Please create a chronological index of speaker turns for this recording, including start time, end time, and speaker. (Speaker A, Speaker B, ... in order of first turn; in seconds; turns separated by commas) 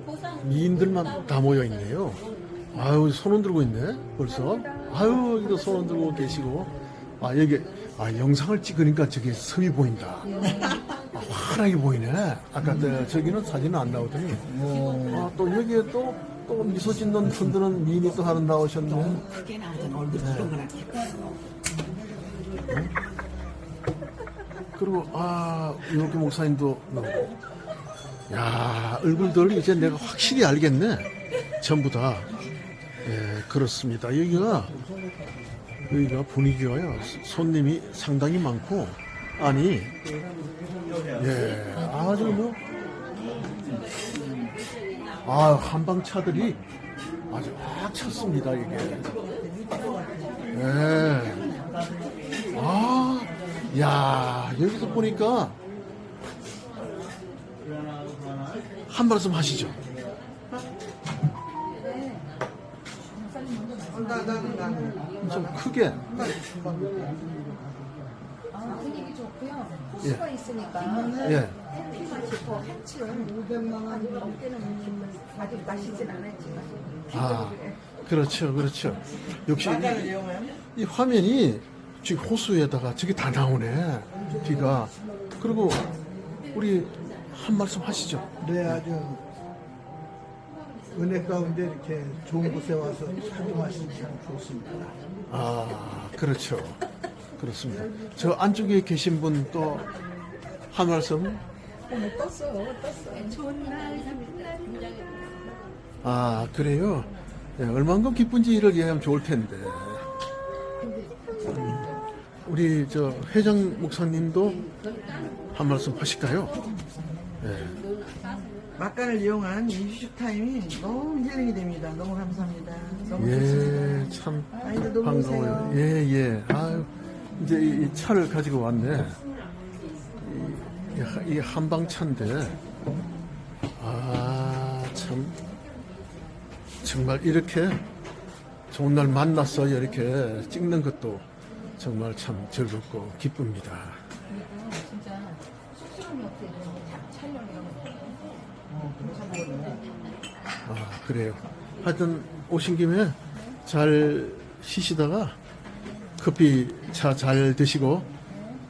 Speaker A: 0.4-19.3, Speaker B: 14.6-15.2, Speaker C: 14.7-15.0, Speaker D: 19.4-20.1, Speaker A: 20.1-20.7, Speaker D: 20.6-21.3, Speaker A: 22.6-22.9, Speaker A: 24.7-27.3, Speaker A: 28.3-32.3, Speaker A: 33.0-34.8, Speaker A: 35.9-40.0, Speaker A: 41.1-42.6, Speaker A: 45.2-46.6, Speaker A: 47.3-49.2, Speaker A: 50.5-51.6, Speaker A: 52.5-55.6, Speaker A: 58.9-59.9, Speaker E: 61.8-62.3, Speaker E: 63.1-64.8, Speaker B: 63.9-67.3, Speaker A: 65.2-66.1, Speaker C: 66.5-67.2, Speaker E: 68.5-77.1, Speaker A: 71.0-71.6, Speaker A: 77.1-80.2, Speaker B: 79.5-80.6, Speaker A: 80.7-85.9, Speaker A: 86.5-88.8, Speaker C: 88.4-89.2, Speaker C: 90.9-94.9, Speaker A: 95.3-96.8, Speaker A: 97.4-99.9, Speaker A: 100.7-101.4, Speaker E: 101.9-104.8, Speaker D: 104.0-104.9, Speaker A: 106.0-110.0, Speaker E: 110.8-111.4, Speaker A: 111.5-111.9, Speaker A: 112.4-114.7, Speaker A: 115.5-116.6, Speaker A: 117.4-117.9, Speaker B: 118.7-123.8, Speaker A: 123.2-129.2, Speaker B: 124.6-125.8, Speaker A: 130.2-132.6, Speaker A: 133.8-135.4, Speaker A: 136.8-137.8, Speaker A: 138.7-141.2, Speaker A: 141.8-144.0, Speaker E: 144.3-148.2, Speaker C: 148.7-149.8, Speaker A: 150.6-155.4, Speaker A: 156.2-158.1